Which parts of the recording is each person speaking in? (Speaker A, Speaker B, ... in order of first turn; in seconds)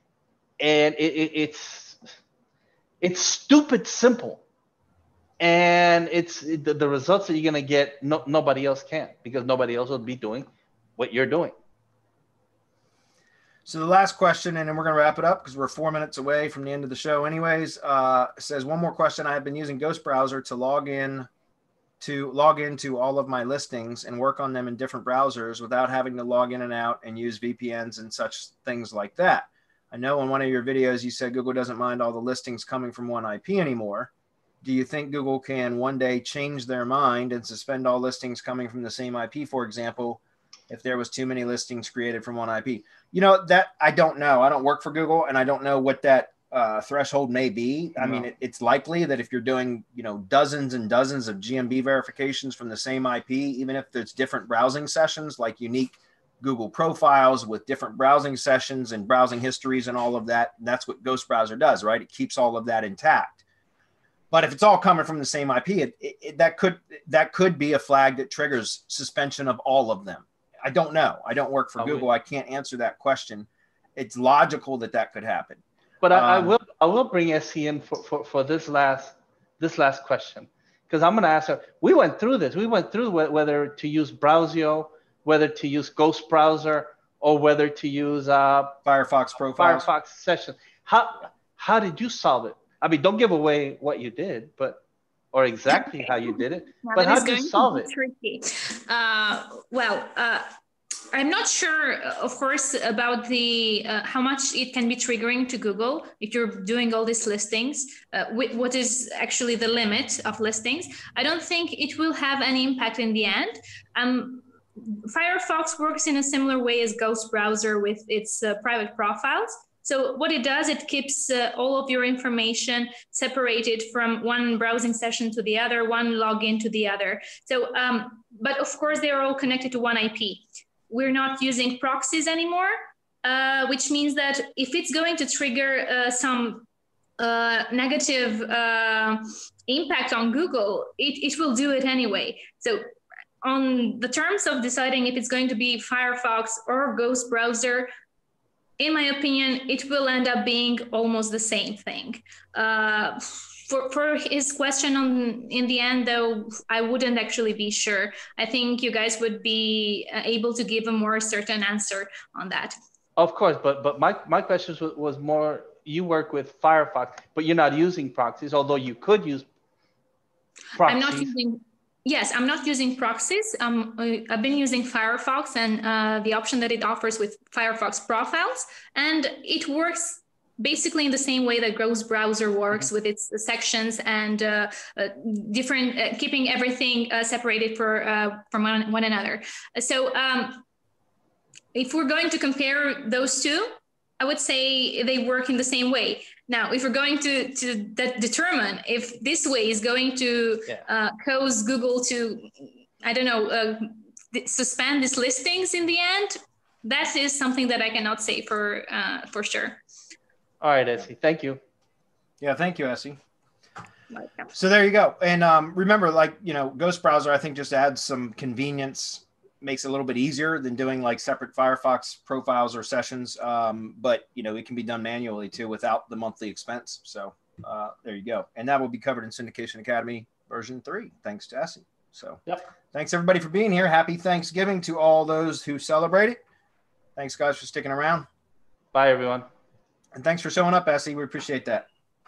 Speaker A: 0.6-2.0, 3.0-4.4, 5.4-10.5, 11.0-11.5, 48.0-48.3, 71.8-72.1, 76.0-88.8, 89.5-94.8, 95.3-97.9, 163.2-169.5, 170.7-171.3, 210.6-211.6, 238.9-239.5
Speaker B: 13.7-21.3, 22.0-34.1, 34.6-63.4, 64.3-76.5, 88.9-89.9, 212.4-213.2, 214.5-232.4, 232.9-236.4, 237.2-238.3, 240.1-241.9
Speaker C: 95.7-100.5, 101.1-136.7, 137.2-142.8, 143.4-147.9, 148.8-162.8, 170.8-190.6, 191.7-209.8, 214.1-214.5